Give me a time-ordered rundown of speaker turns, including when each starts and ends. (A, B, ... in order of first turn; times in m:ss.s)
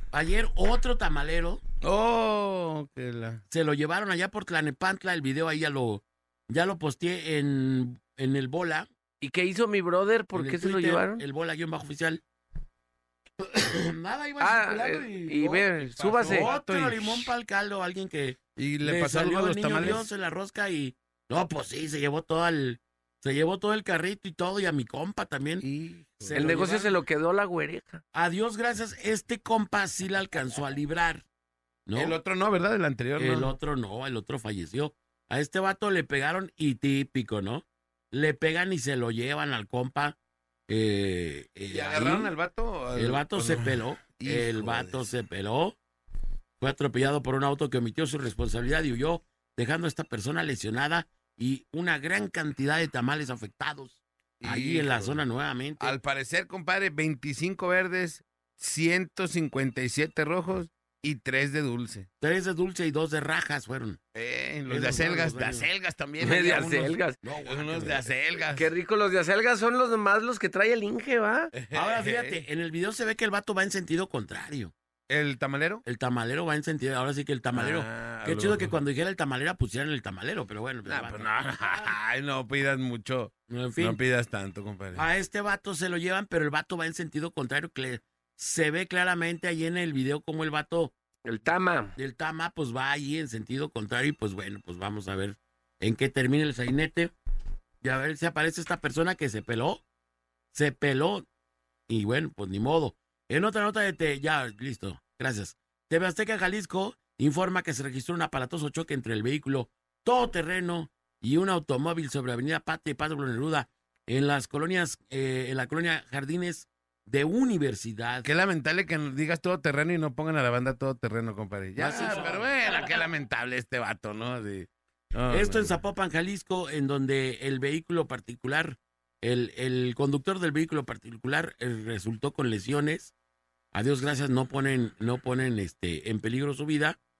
0:00.1-0:01.6 A
0:01.8-0:03.4 B
0:03.5-0:08.9 A
0:09.2-0:11.2 C
0:10.3-0:12.2 A
0:13.4-0:15.7 A
0:14.4-0:16.5 C
0:15.7-0:17.2 B
0:16.2-0:25.6 A
0:18.6-0:20.0 B
0:25.6-0:26.6 B
0:26.2-0:26.9 A
0:26.3-0:28.0 C
0:28.1-0:31.2 A
0:31.9-0:32.2 A
0:31.9-0:33.5 B
0:33.2-0:40.2 A
0:40.7-0:42.3 A
0:41.7-0:45.0 B
0:42.9-0:45.8 A
0:46.6-0:56.0 A
0:54.4-0:55.2 B
0:55.8-1:02.1 B
1:02.2-1:04.0 A
1:04.1-1:07.0 B
1:04.7-1:05.7 A
1:06.2-1:07.2 C
1:07.2-1:08.0 A
1:07.5-1:08.7 B
1:08.6-1:11.5 C
1:11.5-1:12.4 B
1:11.7-1:14.7 A
1:15.1-1:15.8 B
1:15.8-1:21.9 A
1:17.5-1:18.7 B
1:20.9-1:25.0 B
1:23.5-1:24.0 A
1:24.9-1:30.9 A
1:31.2-1:31.9 C
1:32.0-1:37.1 A
1:37.8-1:39.8 A
1:40.5-1:41.2 A
1:41.9-1:58.3 A
1:58.2-2:05.7 B
2:01.8-2:02.4 A
2:05.3-2:13.1 A
2:13.7-2:17.0 A